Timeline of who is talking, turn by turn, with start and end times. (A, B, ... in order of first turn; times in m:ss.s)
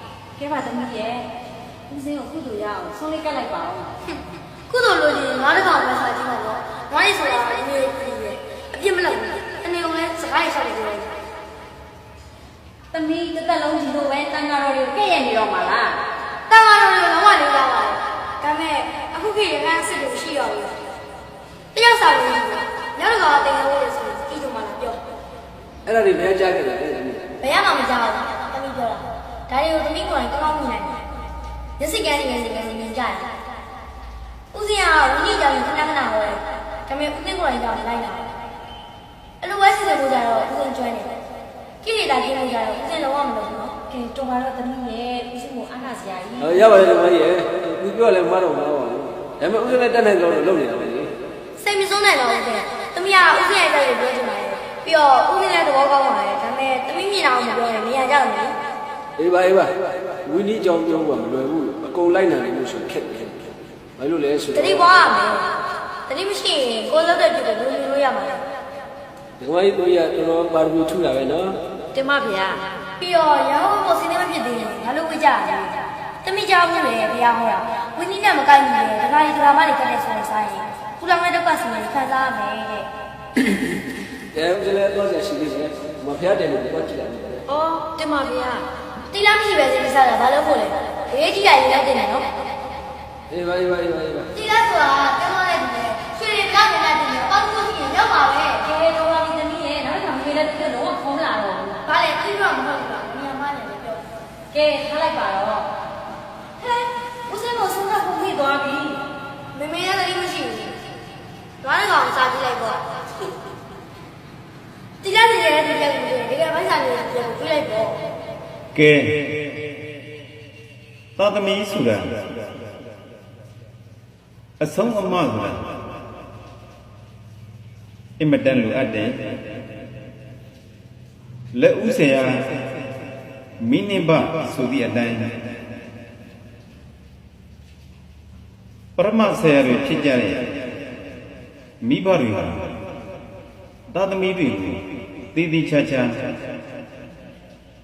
0:00.4-0:01.3 A
0:01.9-0:03.9 A
0:04.7-0:11.1 B
0:12.9-0:16.0 A
0:16.5-0:20.7 B
0:21.7-0:25.0 B
0:25.8-0:27.3 C
0:27.4-0:31.0 B
0:31.8-0:33.3 B
0:34.5-0:38.2 B
0:39.4-0:41.1 B
0:41.8-0:43.8 B
0:43.8-0:46.9 A
0:46.4-0:51.1 C
0:51.6-0:58.6 B
0:59.2-1:04.9 C
1:04.5-1:05.5 B
1:06.1-1:08.4 B
1:09.4-1:11.6 C
1:11.9-1:12.6 A
1:13.0-1:22.9 B
1:24.3-1:27.4 C
1:27.5-1:28.6 A
1:29.0-1:32.3 B
1:33.3-1:34.3 C
1:34.3-1:38.6 B
1:38.6-1:41.8 A
1:41.8-1:44.0 B
1:44.5-1:45.7 A
1:47.2-1:49.0 A
1:49.5-1:50.8 B
1:51.6-1:52.8 B
1:55.0-1:58.0 B
1:58.7-1:59.3 D
2:01.2-2:02.1 D
2:04.6-2:05.6 D
2:08.2-2:09.2 D
2:11.5-2:12.4 D
2:13.6-2:15.3 D
2:19.0-2:20.5 D
2:21.8-2:22.7 D
2:23.9-2:26.2 D